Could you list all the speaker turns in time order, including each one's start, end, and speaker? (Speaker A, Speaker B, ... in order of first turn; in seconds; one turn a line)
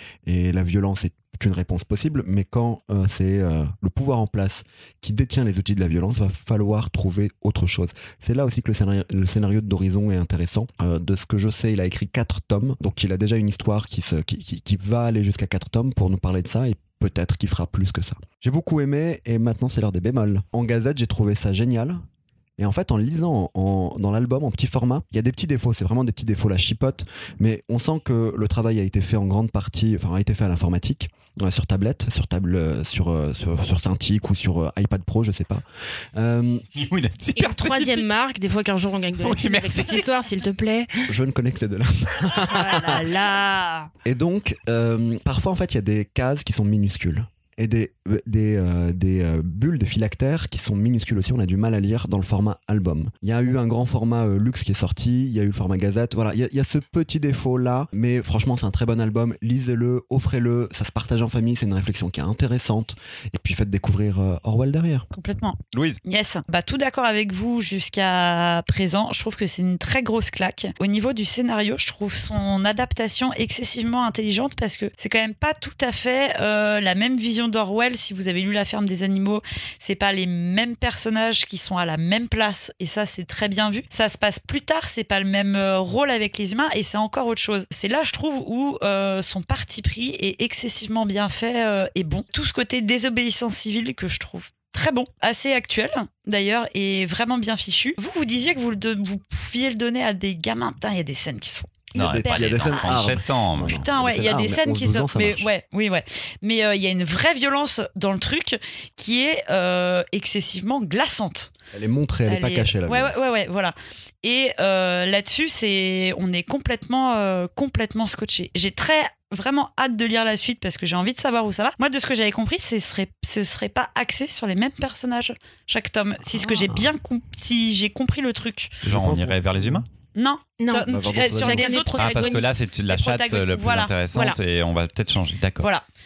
Speaker A: 0.2-22.0
Speaker A: 22.6-35.6
Speaker A: 36.1-36.6
Speaker B: 36.7-38.1
Speaker C: 37.4-41.1
Speaker B: 39.2-40.0
Speaker A: 41.0-43.1
Speaker C: 42.4-43.9
Speaker A: 44.0-65.0
Speaker D: 65.1-111.5
Speaker B: 65.7-66.0
Speaker B: 101.9-103.8
Speaker A: 102.0-105.5
Speaker A: 111.7-113.2
Speaker D: 112.3-128.8
Speaker A: 128.8-129.8
Speaker B: 128.8-129.8
Speaker D: 130.1-133.9
Speaker C: 130.6-132.5
Speaker A: 130.9-131.8
Speaker B: 131.9-135.7
Speaker C: 134.1-134.4